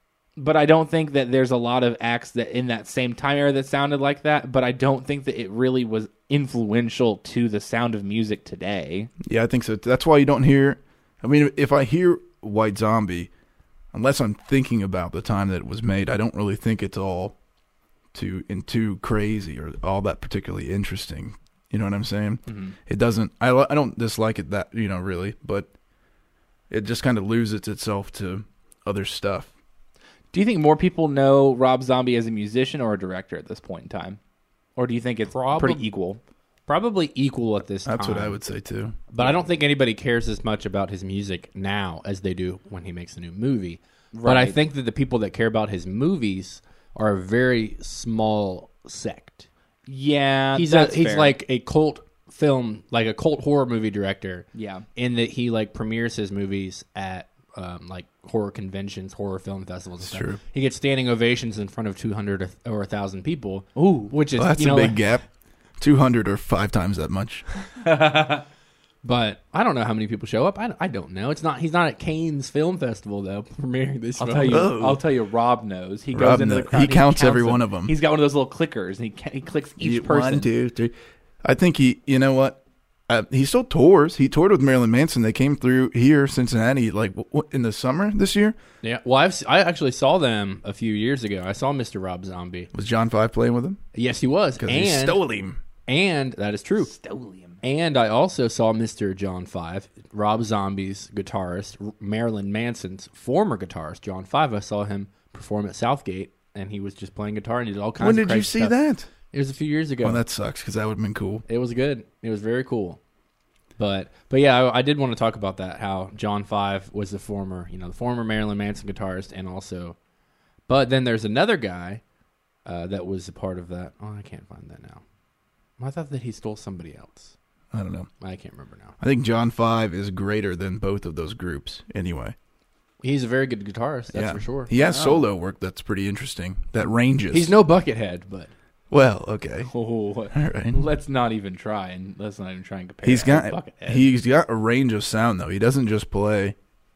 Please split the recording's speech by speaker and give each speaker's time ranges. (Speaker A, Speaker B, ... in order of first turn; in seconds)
Speaker A: 0.4-9.1, 22.5-22.8, 30.3-34.2, 34.8-36.2, 44.1-44.6, 49.9-51.4, 54.5-54.9, 63.8-64.1, 67.8-68.4, 74.2-80.5, 96.8-97.6, 134.8-135.2, 139.7-144.1
Speaker B: 9.2-13.3, 13.9-17.4, 18.1-25.7, 26.7-29.5, 37.9-39.0, 60.0-60.4, 64.3-65.2, 65.8-67.5, 74.5-75.0, 76.1-78.0, 79.8-88.6, 92.7-93.8, 94.6-95.6, 108.0-109.1, 110.0-111.5, 127.7-128.1, 129.0-132.3, 134.1-137.6, 138.9-139.7, 140.3-140.8, 143.0-146.6
Speaker C: 35.3-35.9, 36.7-38.4, 39.1-49.5, 50.5-65.1, 69.0-74.7, 88.8-92.7, 94.0-95.2, 95.9-96.9, 97.6-108.8, 109.3-110.2, 111.5-113.0, 113.8-120.0, 120.7-122.0, 122.7-125.0, 125.8-127.3, 128.2-129.0, 133.0-134.7, 137.3-138.5